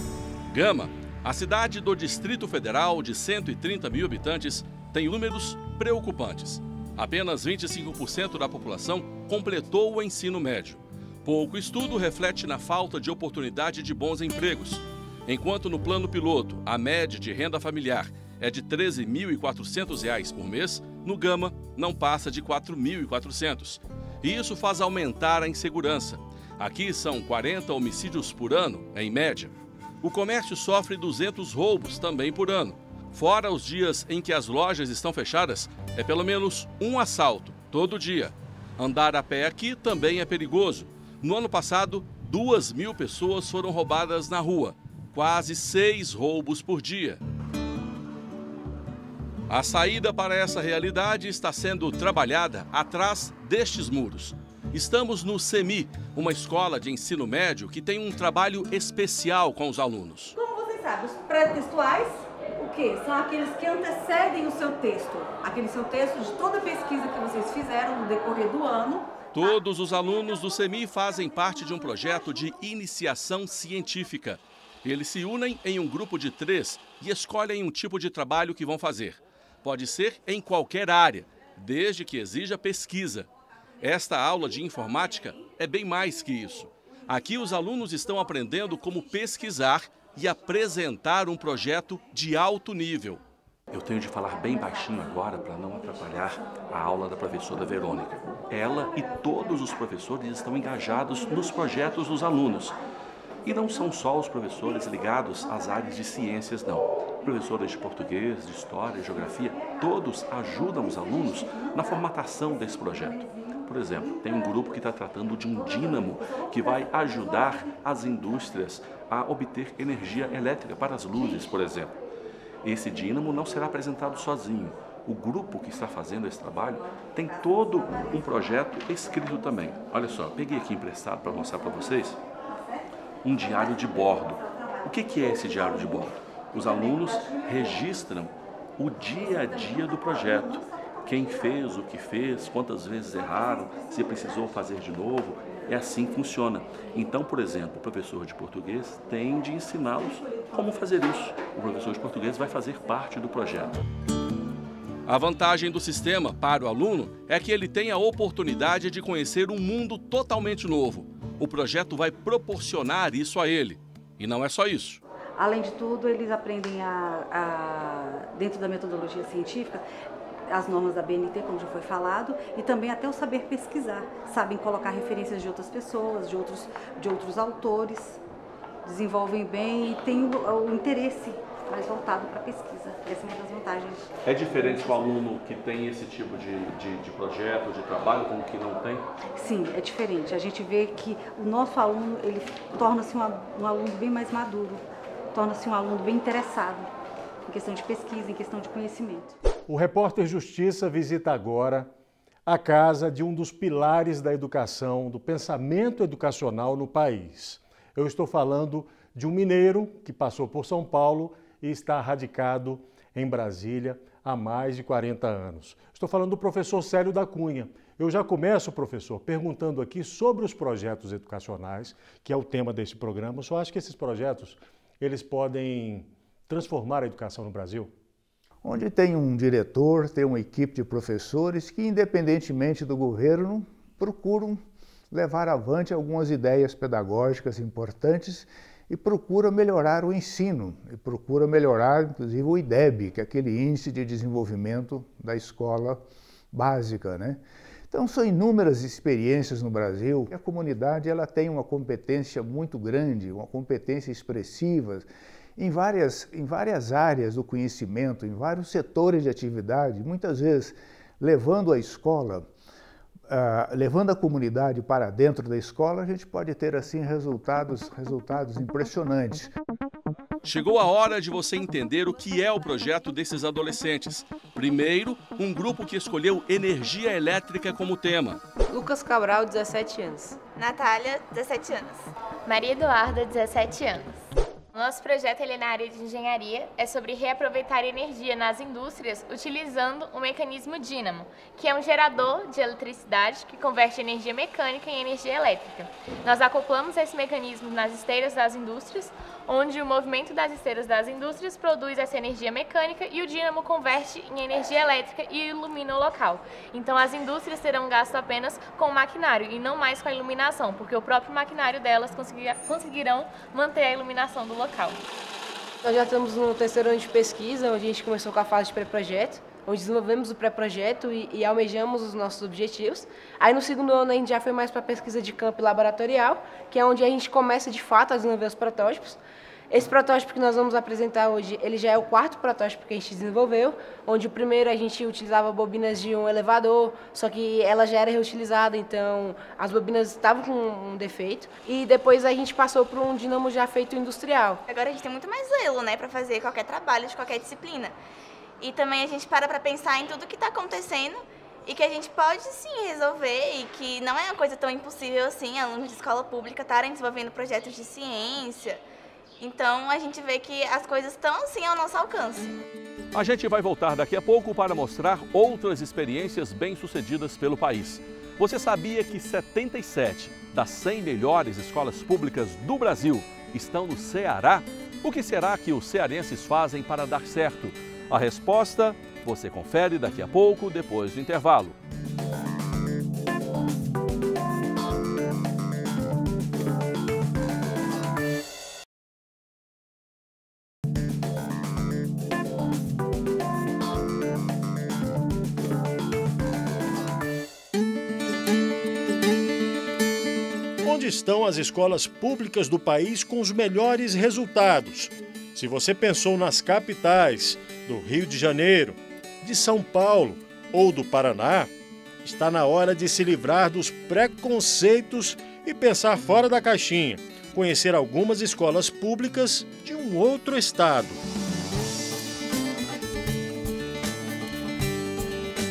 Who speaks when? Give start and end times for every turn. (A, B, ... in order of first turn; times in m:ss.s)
0:00.5-0:47.2 A
0:49.5-1:00.3 A
1:00.3-1:09.2 B
1:09.3-1:23.3 A
1:23.8-1:42.8 A
1:43.4-2:02.0 A
2:02.6-2:12.2 A
2:13.2-2:33.8 A
2:35.1-2:45.0 A
2:45.4-2:49.8 B
2:50.5-2:58.2 B
2:58.8-3:04.0 B
3:04.2-3:09.0 A
3:09.4-3:16.9 B
3:17.5-3:19.3 B
3:19.7-3:21.9 C
3:22.4-3:47.9 C
3:48.6-4:22.4 D
4:23.3-4:29.5 D
4:30.4-4:38.4 A
4:38.7-4:40.4 E
4:40.6-4:42.1 F
4:42.4-4:44.2 G
4:44.7-5:15.0 G
5:15.8-5:44.6 E
5:44.7-5:47.9 F
5:48.6-5:58.8 F
5:59.4-6:02.5 F
6:03.1-6:21.8 A
6:40.8-6:51.7 C
6:52.2-7:01.2 C